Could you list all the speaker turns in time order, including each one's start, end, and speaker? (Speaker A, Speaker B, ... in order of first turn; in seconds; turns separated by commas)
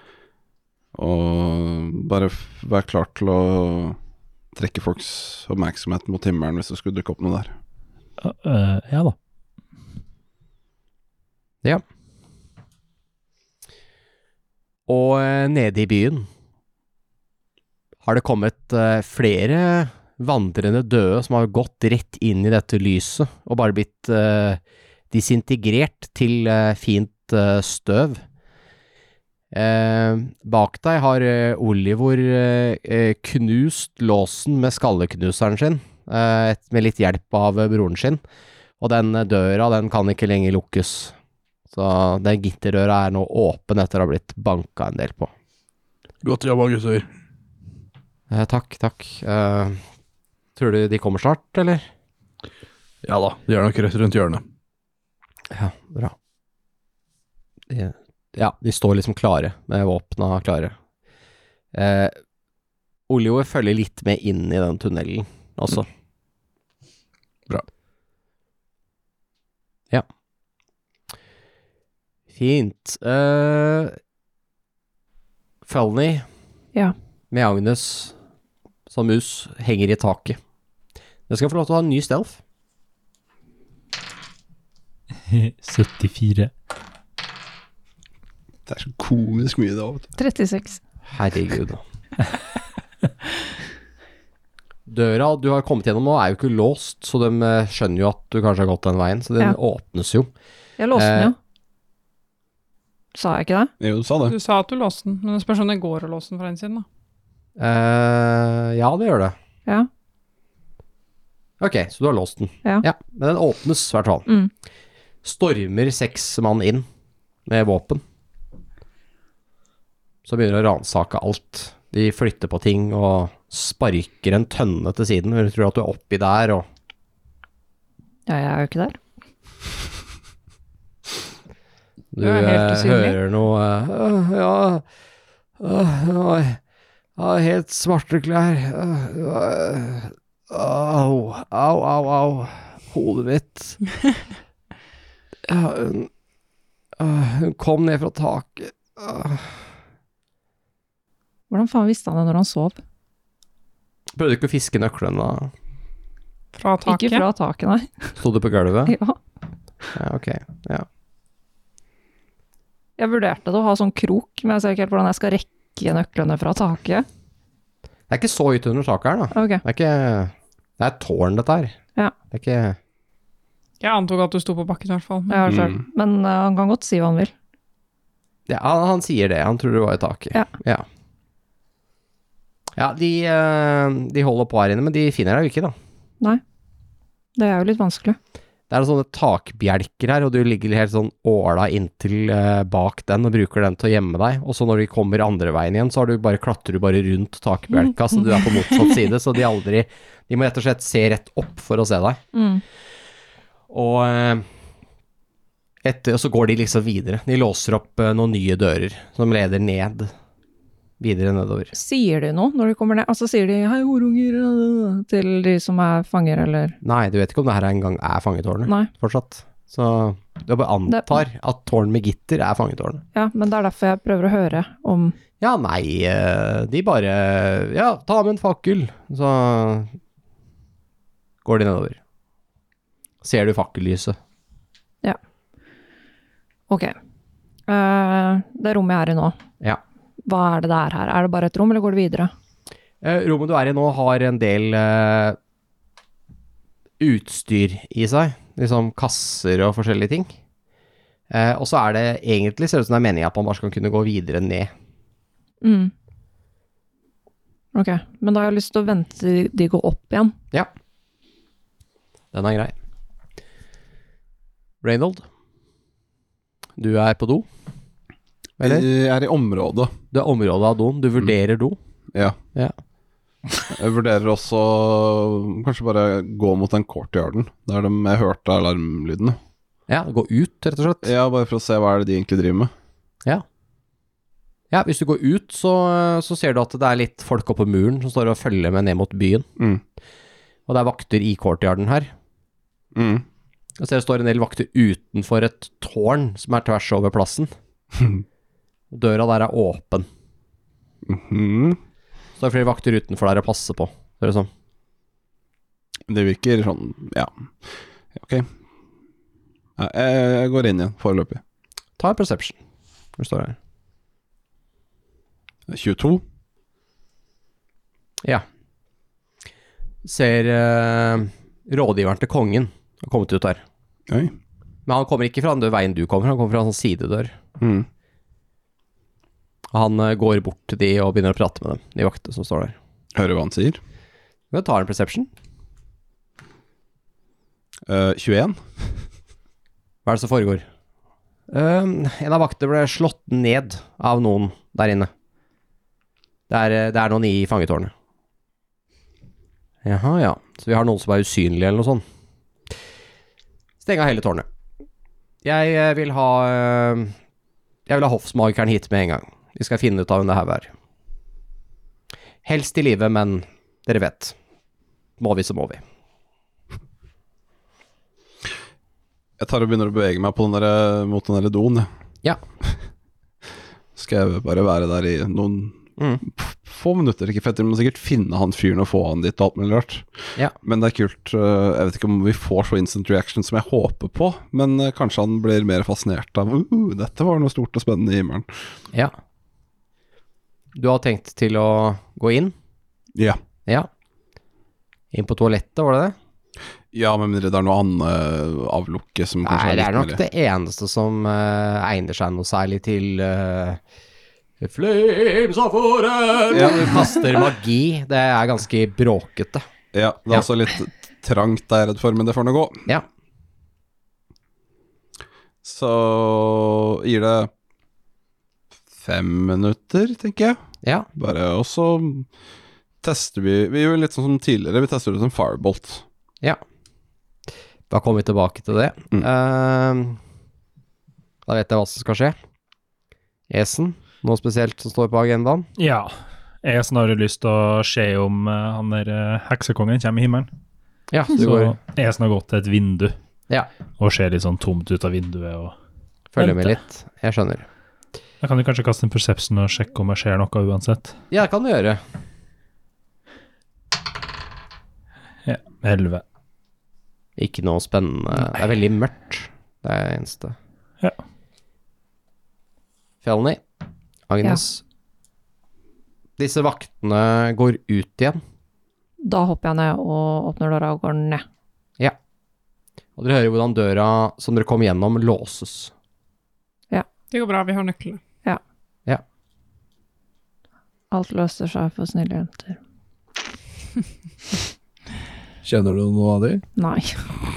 Speaker A: 0.9-4.0, Speaker A: 4.5-7.5, Speaker B: 8.2-9.1, Speaker C: 14.9-16.3, Speaker C: 18.0-24.6, Speaker C: 25.1-28.2, Speaker C: 29.5-38.2, Speaker C: 38.8-41.1, Speaker C: 41.7-45.3, Speaker D: 46.2-47.1, Speaker C: 48.3-49.8, Speaker C: 50.5-51.9, Speaker D: 53.0-54.4, Speaker C: 55.5-56.1, Speaker C: 57.7-60.7, Speaker C: 61.7-62.1, Speaker C: 63.1-65.9, Speaker C: 72.3-74.0, Speaker C: 75.7-76.2, Speaker C: 77.3-78.1, Speaker C: 78.9-80.4, Speaker C: 81.3-82.4, Speaker B: 85.3-86.5, Speaker A: 88.7-90.1, Speaker E: 90.2-90.8, Speaker C: 91.1-91.8, Speaker C: 94.9-100.3, Speaker E: 100.8-101.3, Speaker C: 100.9-101.3, Speaker E: 103.1-103.7, Speaker A: 103.8-104.3, Speaker F: 104.3-106.8, Speaker C: 107.6-109.3, Speaker C: 111.6-114.3, Speaker C: 115.2-116.8, Speaker C: 117.5-118.0, Speaker C: 120.2-126.7, Speaker E: 128.3-129.0, Speaker C: 132.1-134.8, Speaker E: 132.2-133.2, Speaker C: 135.6-136.6, Speaker C: 137.2-143.8, Speaker C: 145.5-146.1, Speaker C: 147.0-149.5, Speaker E: 151.5-152.8, Speaker C: 154.2-155.5, Speaker F: 156.5-157.2, Speaker E: 156.8-158.2, Speaker C: 158.2-158.9, Speaker E: 158.9-159.2, Speaker C: 159.9-160.8, Speaker E: 163.0-167.0, Speaker C: 168.1-171.7, Speaker E: 169.3-169.6, Speaker C: 172.3-172.8, Speaker F: 173.8-175.5, Speaker E: 175.3-177.3, Speaker A: 175.4-175.8, Speaker C: 178.5-180.8, Speaker C: 182.8-185.7, Speaker E: 187.3-188.2, Speaker C: 188.7-202.2, Speaker E: 202.3-202.6, Speaker C: 203.7-204.4, Speaker C: 205.8-210.1, Speaker C: 211.0-211.7, Speaker E: 211.7-216.8, Speaker C: 216.8-223.0, Speaker E: 220.9-221.2, Speaker E: 223.1-225.1, Speaker C: 225.4-229.9, Speaker C: 231.4-232.0, Speaker C: 233.2-234.2, Speaker E: 236.7-236.9, Speaker E: 237.7-239.4, Speaker E: 240.2-242.3, Speaker C: 243.0-245.4, Speaker C: 247.0-250.3, Speaker C: 251.3-254.7, Speaker E: 255.6-255.9, Speaker E: 257.7-260.3, Speaker C: 262.3-262.7, Speaker C: 264.8-265.2, Speaker C: 266.8-267.4, Speaker A: 268.6-269.9, Speaker C: 270.1-271.8, Speaker A: 273.7-279.4, Speaker C: 279.9-281.1, Speaker A: 281.0-282.7, Speaker C: 284.7-289.5, Speaker C: 290.7-292.1, Speaker A: 292.9-293.2, Speaker C: 293.8-297.5, Speaker C: 298.9-300.1, Speaker A: 301.1-301.8, Speaker C: 302.4-304.5, Speaker A: 306.1-308.5, Speaker A: 309.8-311.4, Speaker C: 312.0-312.5, Speaker C: 313.2-313.6, Speaker A: 315.7-316.2, Speaker C: 320.0-323.6, Speaker A: 324.1-324.3, Speaker C: 324.9-327.4, Speaker A: 327.6-327.9, Speaker C: 329.7-332.8, Speaker A: 333.1-333.8, Speaker C: 334.5-335.3, Speaker A: 337.9-339.0, Speaker C: 340.1-340.6, Speaker C: 341.5-345.1, Speaker C: 346.5-347.9, Speaker C: 349.8-352.0, Speaker C: 353.8-354.4, Speaker C: 355.4-357.1, Speaker C: 357.9-360.7, Speaker C: 362.4-364.3, Speaker C: 365.2-365.8, Speaker A: 369.4-371.9, Speaker A: 373.9-388.7, Speaker C: 376.0-376.2, Speaker C: 390.7-392.5, Speaker C: 395.1-396.1, Speaker A: 396.9-400.2, Speaker C: 399.4-403.8, Speaker C: 404.6-409.6, Speaker A: 406.5-406.9, Speaker A: 409.9-412.8, Speaker A: 415.6-417.5, Speaker A: 419.0-420.6, Speaker A: 421.2-422.3, Speaker A: 423.0-426.0, Speaker C: 427.9-430.2, Speaker C: 431.5-432.3, Speaker C: 433.5-435.6, Speaker B: 435.8-440.5, Speaker C: 441.1-441.7, Speaker B: 441.4-443.1, Speaker B: 444.0-445.7, Speaker C: 446.3-447.6, Speaker B: 446.4-446.6, Speaker B: 448.4-451.1, Speaker C: 451.3-452.0, Speaker B: 455.4-456.2, Speaker C: 457.4-460.5, Speaker C: 463.2-463.6, Speaker C: 464.3-464.8, Speaker C: 466.4-468.4, Speaker E: 469.2-471.4, Speaker C: 473.2-475.9, Speaker F: 477.3-478.2, Speaker E: 481.1-482.8, Speaker D: 485.6-486.6, Speaker E: 486.8-487.2